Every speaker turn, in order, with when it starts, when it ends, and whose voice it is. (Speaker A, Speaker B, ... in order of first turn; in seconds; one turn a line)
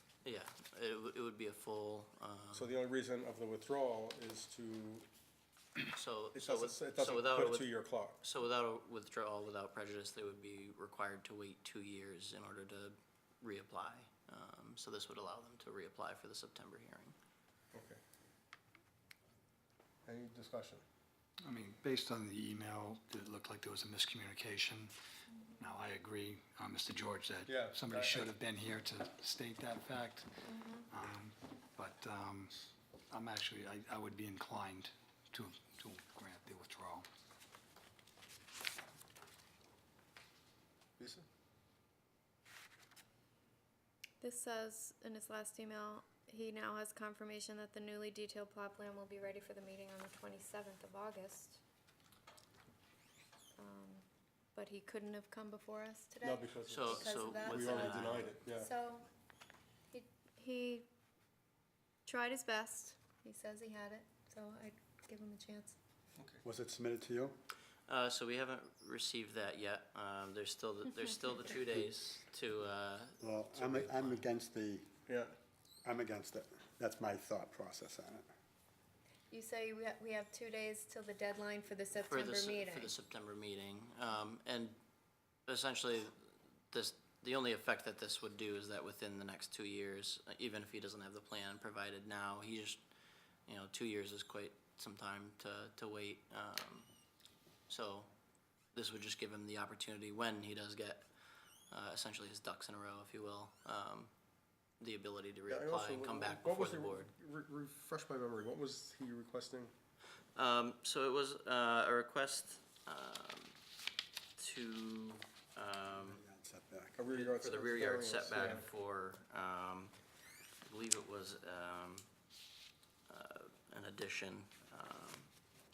Speaker A: 0.2-2.7
Speaker B: 2.5-5.0
Speaker A: 5.9-17.1
Speaker B: 6.3-8.2
Speaker B: 17.7-18.0
Speaker B: 20.0-20.8
Speaker C: 21.4-24.9
Speaker C: 25.6-30.3
Speaker B: 27.5-28.3
Speaker D: 30.5-30.9
Speaker C: 30.9-32.5
Speaker C: 33.1-37.1
Speaker B: 41.0-41.2
Speaker D: 44.2-51.6
Speaker D: 53.5-59.1
Speaker B: 56.2-58.7
Speaker A: 56.7-58.4
Speaker D: 59.9-60.9
Speaker D: 62.0-65.8
Speaker B: 66.2-66.4
Speaker E: 66.4-67.4
Speaker A: 67.9-74.2
Speaker E: 73.2-74.9
Speaker B: 75.1-75.3
Speaker E: 75.8-78.2
Speaker D: 79.3-82.9
Speaker A: 81.9-84.8
Speaker A: 85.5-86.2
Speaker A: 86.7-92.8
Speaker A: 93.5-96.9
Speaker A: 97.7-98.1
Speaker A: 98.7-101.1
Speaker A: 101.7-104.1
Speaker A: 104.8-107.1
Speaker B: 105.5-109.7
Speaker A: 110.3-113.5
Speaker A: 114.4-116.2
Speaker E: 115.9-117.0
Speaker B: 117.0-118.7
Speaker A: 117.1-119.9
Speaker A: 120.6-122.1
Speaker A: 123.1-125.3